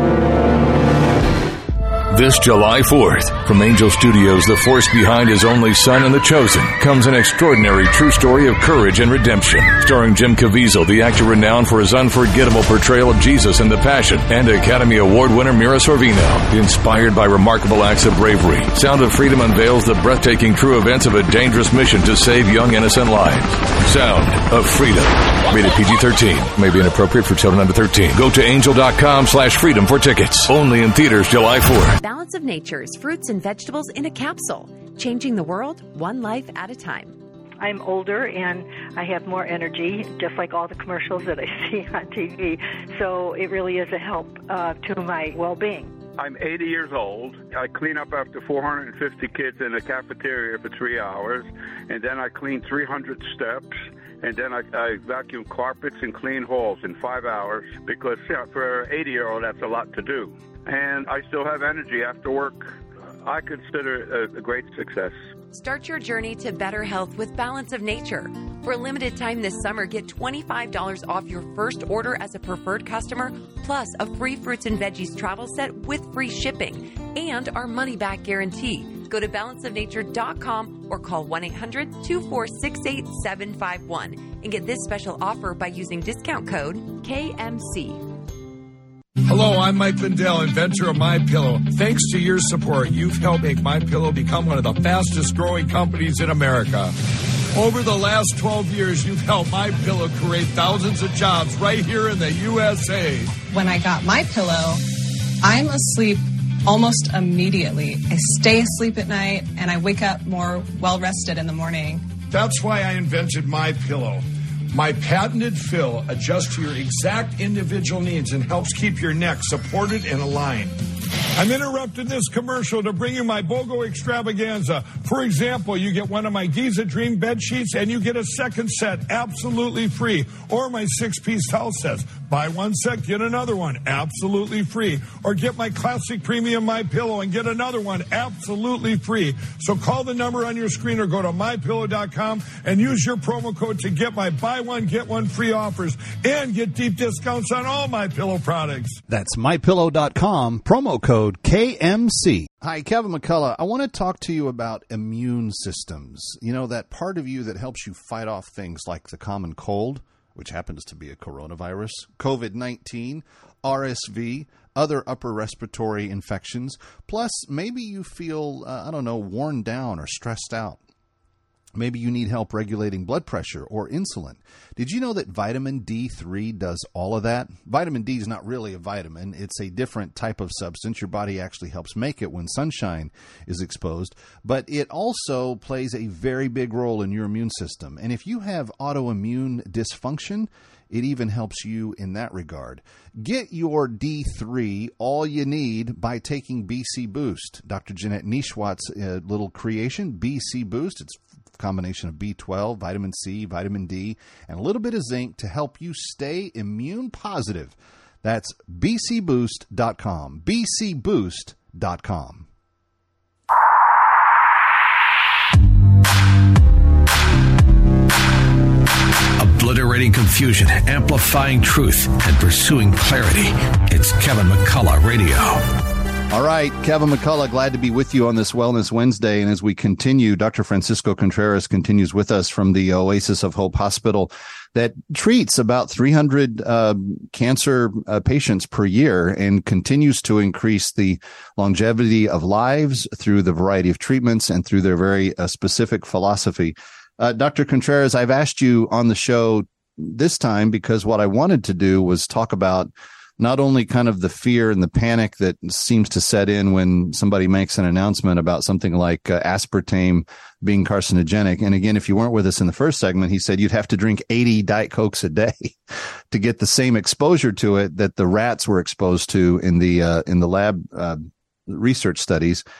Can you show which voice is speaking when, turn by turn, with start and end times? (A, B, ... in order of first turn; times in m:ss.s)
0:02.1-0:32.0 A
0:32.0-0:37.2 B
0:37.6-0:45.9 C
0:46.2-0:53.7 D
0:54.2-1:05.2 D
1:05.5-1:28.0 B
1:29.3-1:36.9 E
1:37.5-1:43.4 E
1:43.5-1:44.8 F
1:45.4-1:52.0 F
1:52.3-2:00.8 E
2:01.4-2:29.0 E
2:29.1-2:50.8 G
2:51.8-3:32.5 G
3:39.4-3:45.6 H
3:46.3-4:25.8 G
4:26.3-4:32.6 G